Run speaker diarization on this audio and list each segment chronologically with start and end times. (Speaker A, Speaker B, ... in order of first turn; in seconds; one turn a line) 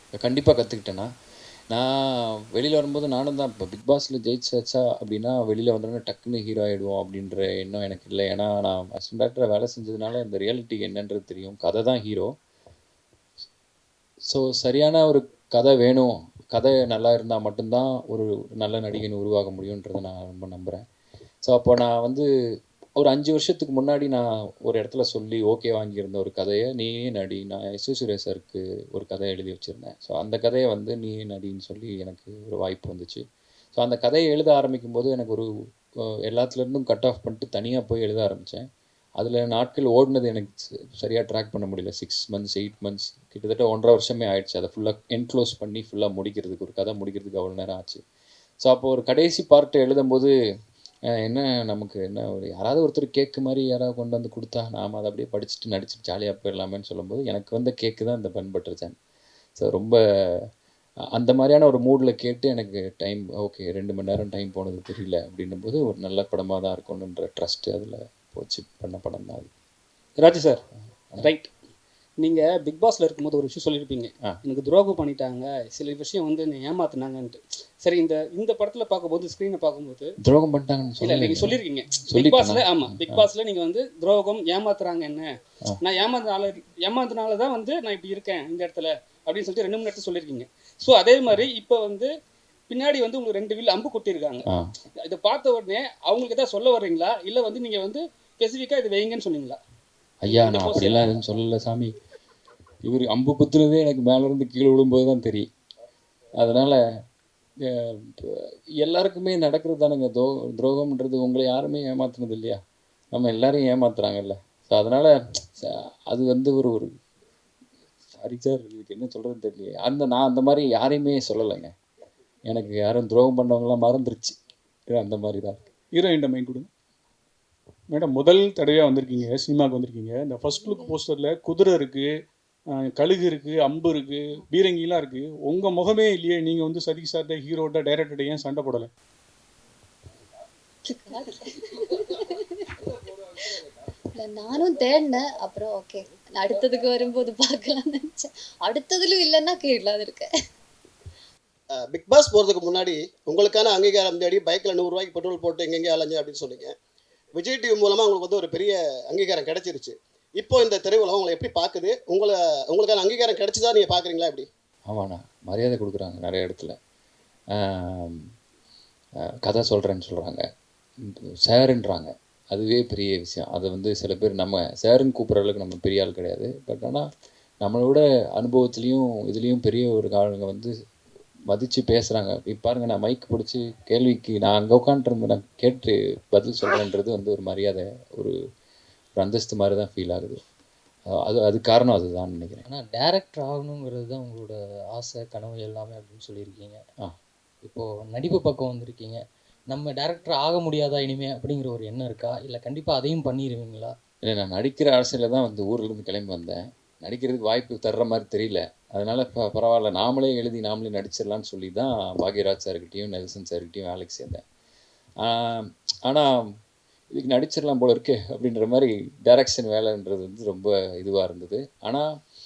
Speaker A: 0.2-1.1
Speaker A: 1.7-12.3
Speaker A: 14.3-20.8
Speaker A: 21.4-22.2
Speaker A: 23.0-33.2
Speaker A: 33.8-35.5
Speaker A: 36.3-38.6
Speaker A: 39.2-48.0
Speaker A: 48.6-50.3
Speaker A: 51.2-59.0
Speaker A: 59.6-60.5
Speaker A: 61.1-69.5
Speaker B: 70.2-70.6
Speaker B: 71.2-71.5
Speaker B: 72.2-80.1
Speaker A: 80.2-83.3
Speaker B: 81.0-85.3
Speaker B: 85.8-92.1
Speaker B: 92.7-94.4
Speaker B: 95.0-99.6
Speaker A: 100.2-101.9
Speaker B: 100.3-101.0
Speaker A: 102.8-105.5
Speaker A: 106.4-106.8
Speaker A: 107.7-112.6
Speaker A: 113.2-116.9
Speaker A: 118.1-121.7
Speaker A: 122.5-124.3
Speaker A: 124.9-125.6
Speaker C: 125.9-126.7
Speaker C: 127.9-132.1
Speaker D: 130.6-130.9
Speaker C: 132.7-138.9
Speaker D: 140.9-142.7
Speaker D: 144.2-150.3
Speaker E: 151.7-156.8
Speaker E: 157.4-164.5
Speaker A: 164.9-166.8
Speaker A: 167.6-168.2
Speaker A: 169.5-170.4
Speaker A: 171.1-177.1
Speaker A: 177.6-180.7
Speaker A: 181.5-188.3
Speaker A: 189.2-190.4
Speaker A: 191.1-192.6
Speaker F: 192.7-196.7
Speaker F: 197.7-199.2
Speaker F: 199.8-203.9
Speaker A: 204.3-214.4
Speaker A: 215.2-216.3
Speaker A: 217.1-222.1